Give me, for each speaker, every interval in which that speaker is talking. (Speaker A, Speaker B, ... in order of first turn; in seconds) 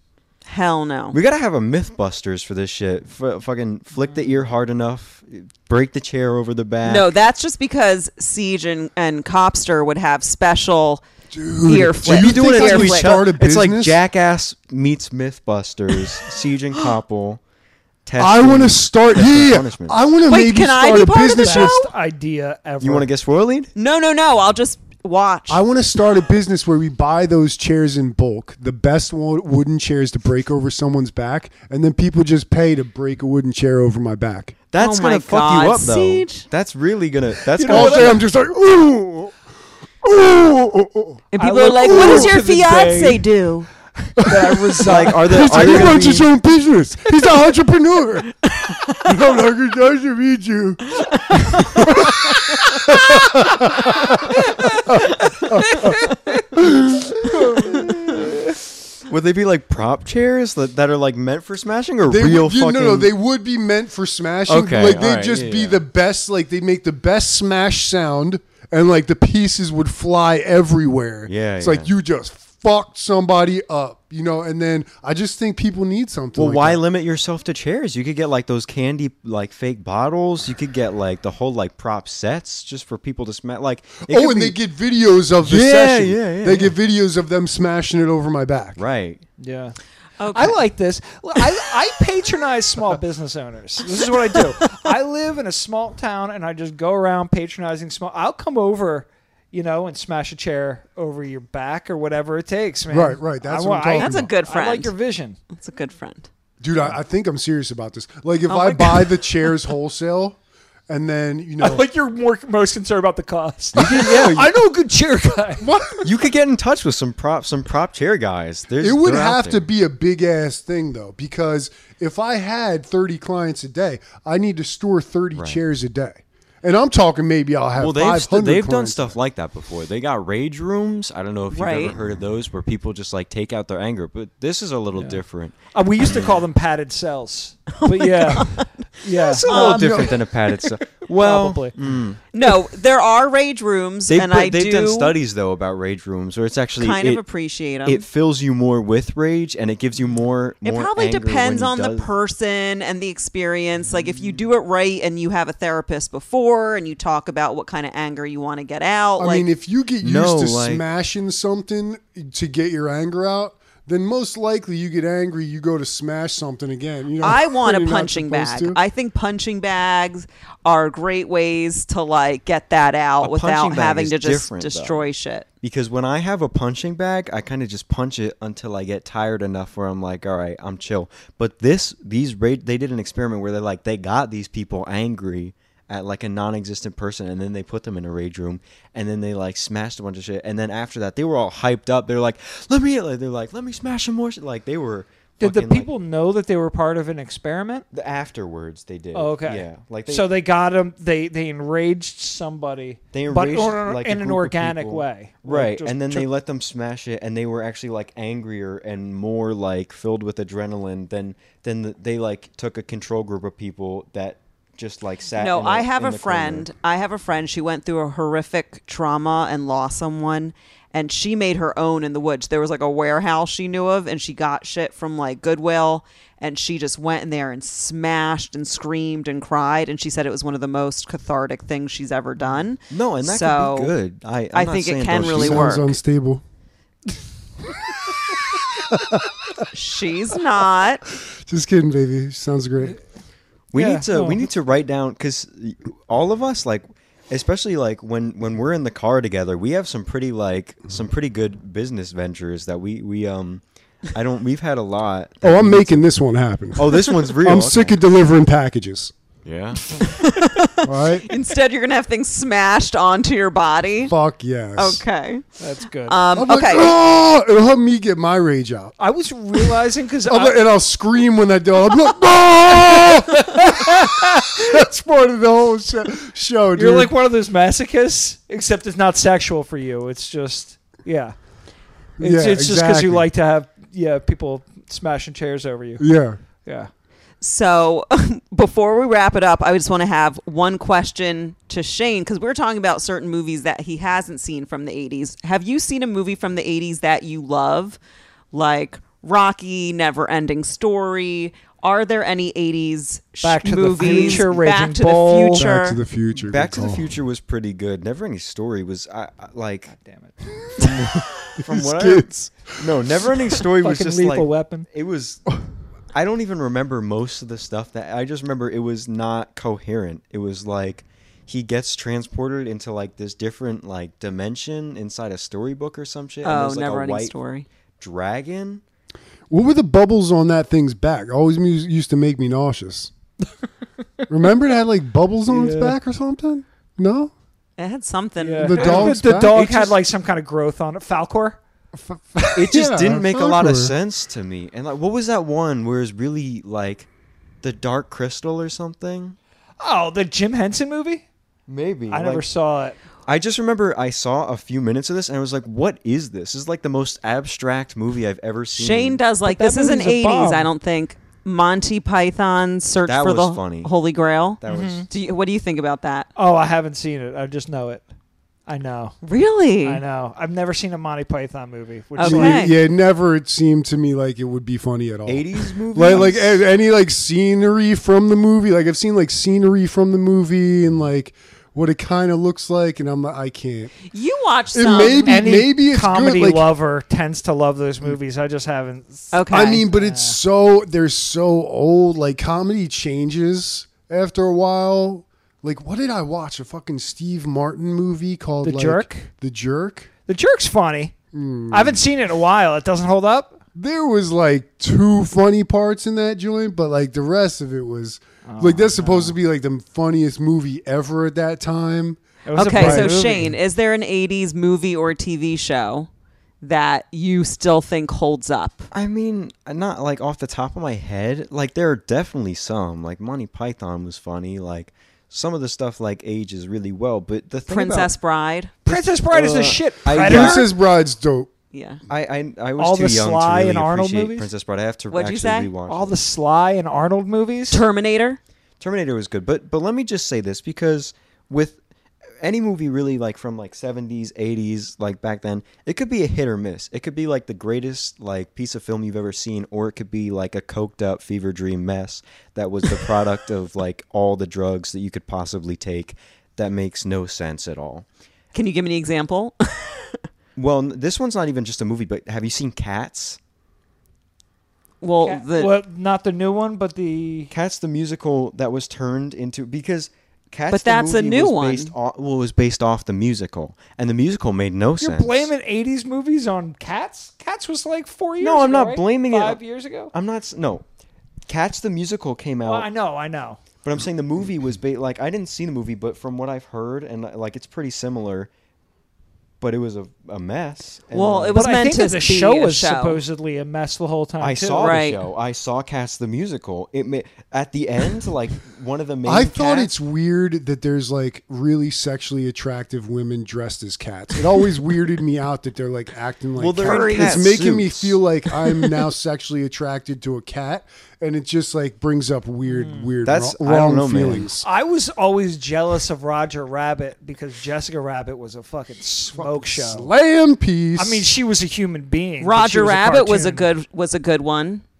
Speaker A: 0.5-1.2, 6.8-11.0, 11.6-13.2, 20.3-21.9, 23.8-25.6, 34.8-36.5, 41.3-43.7, 48.6-48.9, 51.0-53.3, 54.0-56.1, 90.2-90.6, 104.0-104.9, 105.5-106.3, 131.5-131.9, 137.8-138.7, 139.3-140.2, 142.3-145.1, 146.8-148.0, 150.6-159.5, 167.2-175.4, 215.3-233.9, 234.5-235.9, 239.7-241.0, 260.0-264.1, 264.8-265.4, 266.1-266.9, 287.4-298.0, 298.5-306.0, 326.4-327.7, 337.8-339.1, 358.7-366.3, 369.2-370.0, 372.2-372.7, 384.1-385.4, 389.3-389.8, 412.6-416.1, 416.6-418.9, 427.7-428.8, 431.7-432.0, 435.1-435.7, 437.7-438.4, 458.5-460.2, 465.0-465.7, 470.7-471.9, 491.1-493.2, 494.8-495.2, 522.4-524.8
Speaker B: 1.1-7.1, 12.0-17.4, 18.1-20.0, 22.8-23.7, 34.7-38.2, 44.8-46.3, 59.1-63.1, 64.5-65.8, 71.3-71.9, 76.4-84.5, 85.4-86.7, 88.8-89.2, 113.7-114.5, 116.0-119.7, 125.3-125.6, 127.8-136.4, 139.4-142.2, 144.1-147.2, 147.8-152.1, 160.0-160.8, 173.2-175.0, 175.6-195.9, 197.9-200.3, 203.1-216.7, 232.9-235.8, 243.7-256.0, 256.8-258.0, 259.4-259.8, 306.3-309.9, 310.8-315.4, 316.1-327.3, 328.0-328.8, 342.5-347.1, 347.6-349.4, 351.7-352.5, 353.3-359.2, 363.1-363.9, 364.6-365.1, 375.3-376.6, 418.9-428.1, 428.8-430.7, 432.1-436.2, 438.8-441.8, 442.4-458.1, 460.6-463.4, 467.5-475.5, 478.4-480.8, 481.5-482.9, 483.8-488.5, 489.6-491.7, 494.4-499.9, 506.6-508.2, 513.2-514.5
Speaker C: 11.3-14.0, 18.2-21.8, 25.5-34.5, 37.6-39.3, 40.0-41.2, 41.8-42.3, 44.2-48.4, 49.0-58.2, 62.0-76.8, 84.1-88.8, 102.9-104.3, 106.6-111.8, 113.8-114.1, 115.6-116.0, 118.8-129.2, 159.2-168.8, 235.2-236.4, 238.9-239.3, 241.4-243.0, 255.4-259.1, 260.8-261.3, 264.1-265.0, 266.3-268.9, 270.3-277.1, 282.2-283.3, 286.0-286.4, 304.0-304.5, 305.5-307.1, 310.6-313.0, 329.5-333.1, 334.3-337.3, 338.6-339.9, 342.0-343.9, 372.2-383.9, 384.7-386.7, 389.5-400.1, 401.3-402.0, 403.7-413.5, 430.1-431.5, 499.2-514.7, 519.4-521.3
Speaker D: 21.4-23.1, 37.5-38.2, 41.4-43.2, 44.2-46.0, 89.4-89.8, 90.3-105.4, 108.5-108.9, 111.6-115.7, 134.9-135.2, 135.7-140.2, 141.1-141.8, 195.4-197.9, 199.1-206.3, 243.7-244.4, 265.6-266.2, 269.0-270.6, 273.3-274.6, 276.7-281.3, 282.2-286.1, 286.6-286.9, 303.4-305.7, 309.9-310.4, 313.8-314.9, 335.5-335.9, 338.4-341.6, 349.8-351.3, 352.1-353.0, 359.4-360.7, 364.7-365.1, 366.4-368.1, 368.7-369.1, 369.8-372.7, 385.2-390.4, 398.6-399.3, 400.3-401.1, 401.7-403.6, 408.4-409.4, 412.4-413.5, 428.8-430.7, 432.8-434.5, 435.9-437.8, 465.2-467.5, 475.0-480.1, 482.6-483.6, 491.6-495.0, 506.8-507.4, 512.7-513.1, 514.6-520.1, 521.0-523.7